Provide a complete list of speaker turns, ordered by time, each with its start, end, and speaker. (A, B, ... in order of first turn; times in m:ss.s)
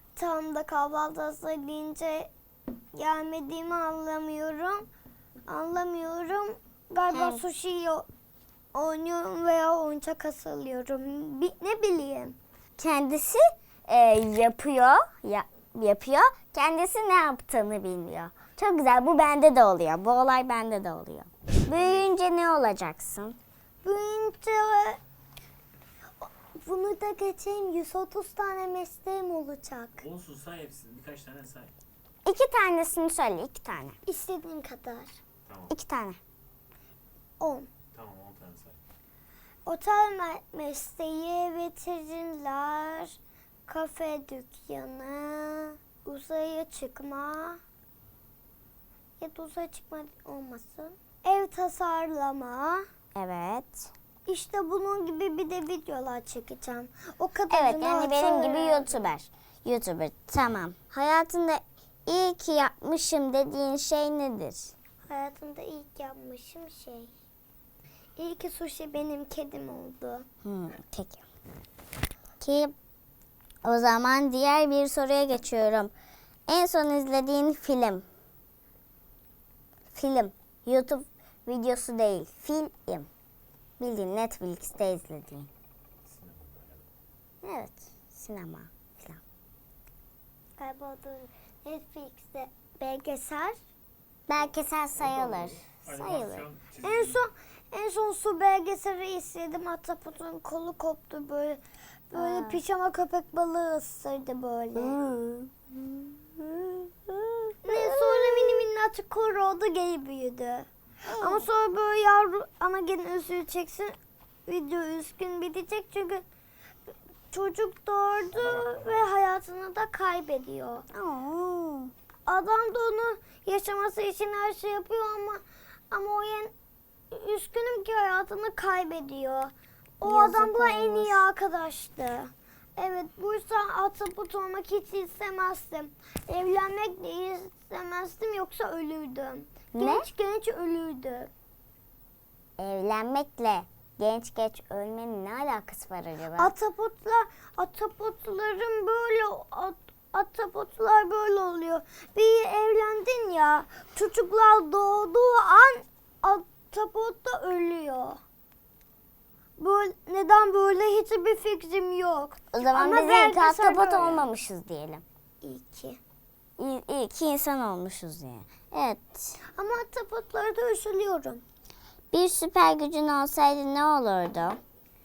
0:00.2-0:02.3 A
0:03.0-0:04.9 A
0:05.5-0:08.1 A
0:07.1-0:07.4 B
0:08.7-0:12.4 A
0:12.8-0:23.4 B
0:21.5-0:22.1 C
0:23.8-0:25.0 A
0:26.2-0:30.0 A
0:30.0-0:31.7 C
0:32.2-0:34.0 B
0:34.1-0:35.2 A
0:35.5-0:35.7 C
0:35.7-0:36.2 B
0:37.4-0:37.7 A
0:37.9-0:38.8 C
0:39.7-0:47.6 A
0:49.2-0:52.8 A
0:53.2-0:53.9 B
0:54.3-0:59.1 A
0:57.5-1:04.7 B
1:05.1-1:07.1 A
1:08.2-1:10.3 A
1:10.4-1:11.2 B
1:12.4-1:12.7 B
1:13.6-1:15.9 B
1:16.5-1:18.1 B
1:19.9-1:23.1 B
1:23.8-1:25.5 B
1:26.0-1:26.9 C
1:27.4-1:29.2 B
1:30.6-1:33.6 A
1:34.3-1:36.5 B
1:35.0-1:37.2 C
1:36.8-1:45.0 A
1:42.2-1:42.6 B
1:44.8-1:48.6 B
1:47.6-1:50.7 A
1:51.1-1:51.4 B
1:51.2-1:54.0 A
1:54.5-1:56.2 A
1:57.3-2:00.8 A
2:00.9-2:01.9 B
2:02.3-2:06.5 A
2:07.1-2:21.3 A
2:10.0-2:11.3 B
2:19.7-2:20.1 B
2:22.6-2:26.5 B
2:26.4-2:38.2 A
2:39.6-2:44.3 A
2:42.5-2:45.0 B
2:45.4-2:46.0 A
2:46.6-2:49.4 B
2:49.6-2:51.4 A
2:52.1-2:54.6 B